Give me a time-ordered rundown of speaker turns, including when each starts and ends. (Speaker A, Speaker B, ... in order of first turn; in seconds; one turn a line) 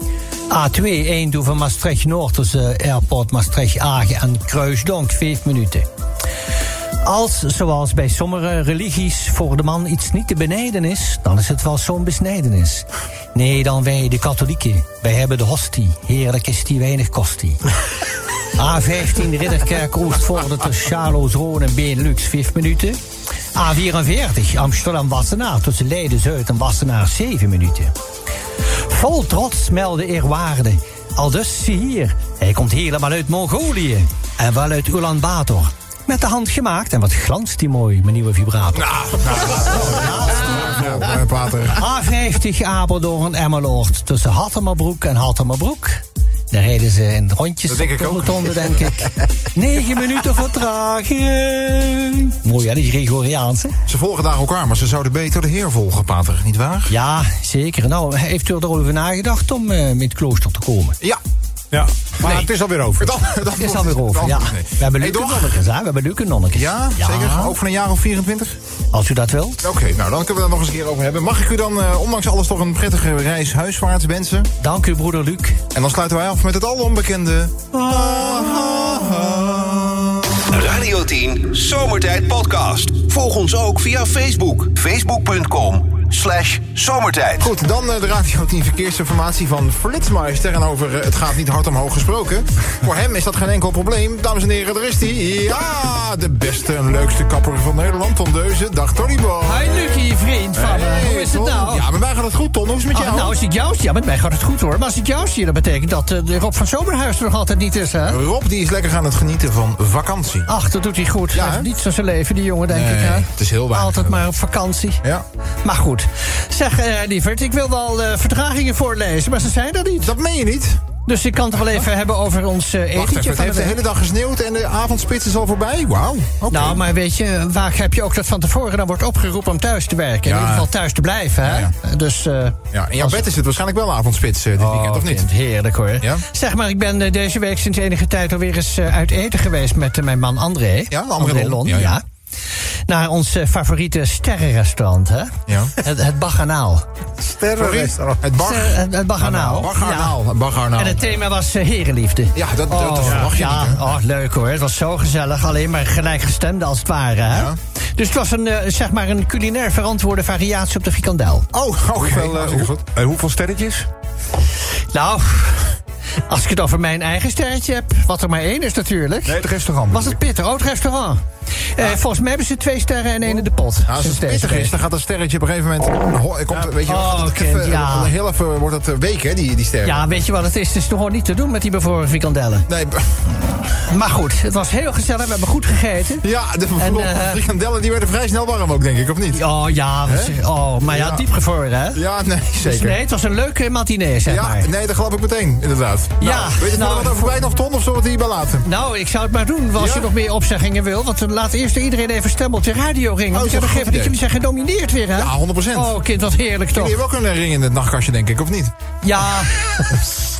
Speaker A: 0.5-5.9
Speaker A: 7.0-17.7
Speaker A: 18.6-23.0
Speaker A: 23.6-27.9
Speaker A: 28.9-40.8
Speaker B: 38.8-41.8
Speaker A: 41.8-53.8
Speaker B: 47.7-48.9
Speaker B: 53.9-56.9
Speaker A: 56.9-61.0
Speaker C: 61.7-63.1
Speaker B: 63.0-65.6
Speaker A: 63.3-67.5
Speaker B: 66.5-68.6
Speaker A: 68.9-69.7
Speaker B: 69.6-74.5
Speaker A: 74.6-75.6
Speaker B: 75.7-80.4
Speaker D: 80.5-87.5
Speaker B: 87.4-100.0
Speaker A: 99.4-101.8
Speaker B: 100.5-103.4
Speaker A: 102.9-108.2
Speaker B: 108.1-110.5
Speaker A: 110.5-115.0
Speaker B: 111.3-111.7
Speaker B: 112.7-114.2
Speaker A: 115.7-120.1
Speaker B: 120.0-120.8
Speaker A: 121.1-123.8
Speaker B: 123.0-126.8
Speaker A: 126.5-133.2
Speaker B: 130.2-130.7
Speaker B: 131.4-131.7
Speaker B: 132.7-135.3
Speaker A: 134.6-142.0
Speaker B: 140.9-142.0
Speaker A: 142.9-146.9
Speaker B: 145.5-145.7
Speaker C: 147.2-148.2
Speaker B: 147.6-151.0
Speaker A: 148.4-150.2
Speaker A: 150.8-161.5
Speaker B: 152.3-153.8
Speaker B: 157.3-157.6
Speaker B: 161.5-162.8
Speaker E: 162.0-163.9
Speaker A: 164.9-165.7
Speaker A: 166.3-169.4
Speaker E: 169.2-170.2
Speaker A: 169.9-171.2
Speaker A: 171.8-174.8
Speaker B: 173.9-180.2
Speaker A: 176.5-178.1
Speaker A: 179.8-182.7
Speaker B: 182.7-183.1
Speaker A: 183.9-186.2
Speaker B: 186.2-189.4
Speaker A: 186.8-187.4
Speaker A: 189.3-192.0
Speaker B: 190.1-191.3
Speaker B: 191.9-193.0
Speaker A: 192.6-194.7
Speaker B: 194.3-198.7
Speaker A: 196.2-197.4
Speaker A: 198.7-206.9
Speaker B: 199.8-200.1
Speaker B: 203.3-204.2
Speaker B: 205.1-206.0
Speaker B: 206.7-208.7
Speaker A: 209.0-210.0